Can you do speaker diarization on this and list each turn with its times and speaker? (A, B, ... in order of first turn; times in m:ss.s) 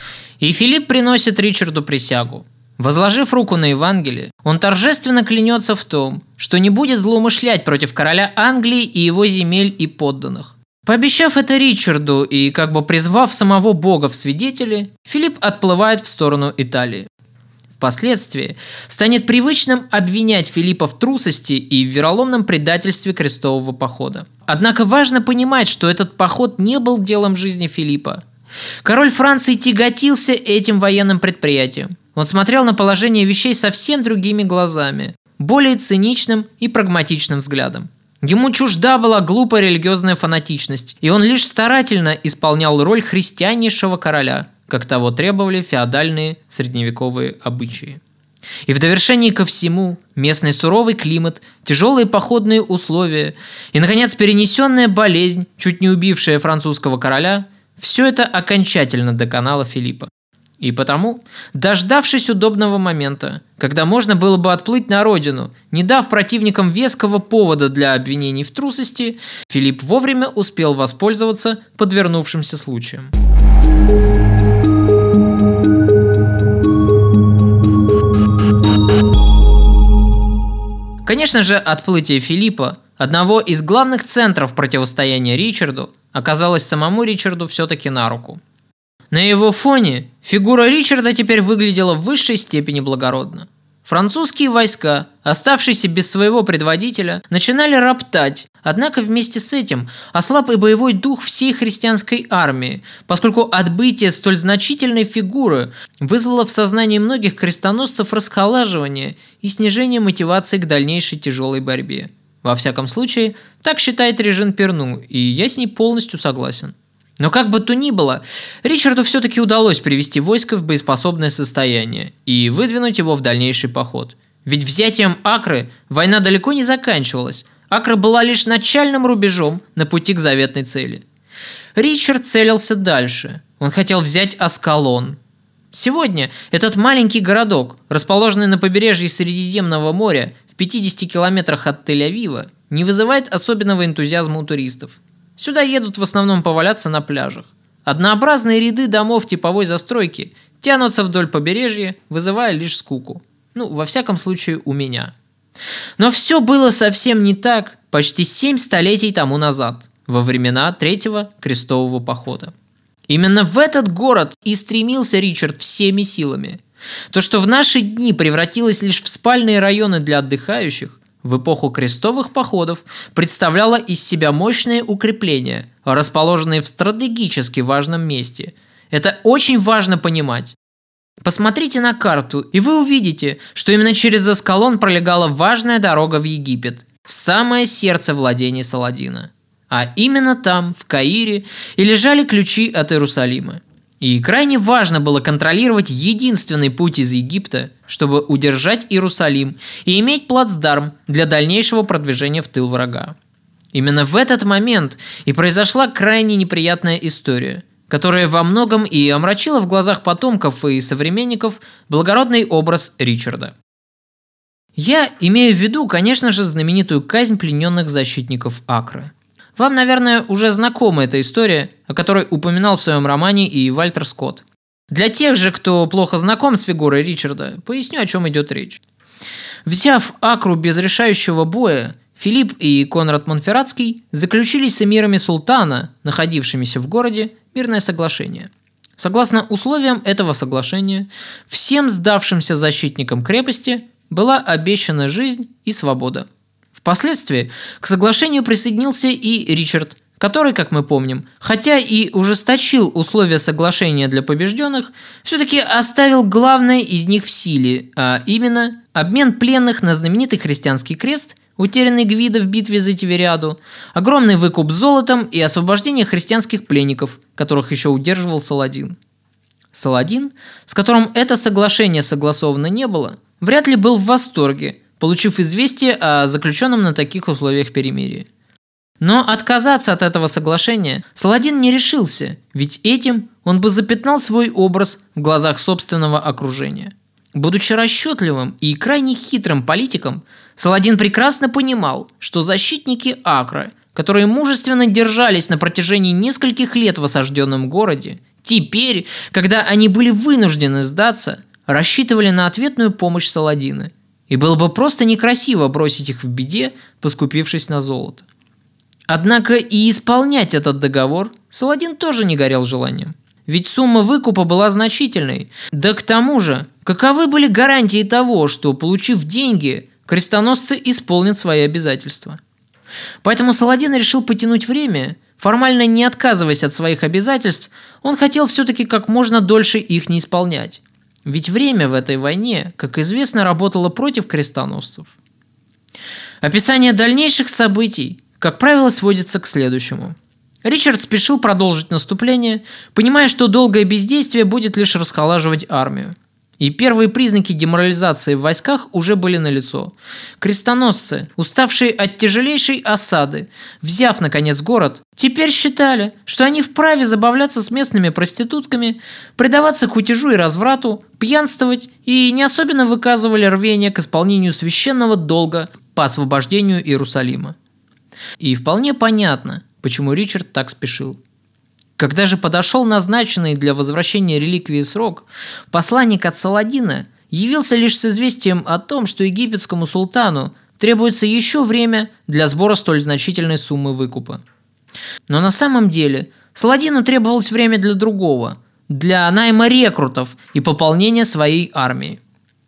0:00.4-0:17.1 A
0:17.7-0:28.2 A
0:28.8-0:48.0 A
0:48.7-1:00.1 A
1:00.6-1:13.1 A
1:21.0-1:28.4 A
1:29.1-2:11.0 A
2:11.8-2:15.2 A
2:15.7-2:35.1 A
2:36.0-2:42.5 A
2:43.1-2:46.6 A
2:47.1-3:00.6 A
3:01.2-3:23.1 A
3:23.7-3:33.5 A
3:34.8-3:48.8 A
3:49.6-4:29.0 A
4:29.7-4:38.2 A
4:39.0-5:08.2 A
5:09.1-5:22.4 A
5:23.2-5:35.1 A
5:36.4-6:07.6 A
6:08.4-6:11.2 A
6:12.0-6:24.4 A
6:25.3-6:32.2 A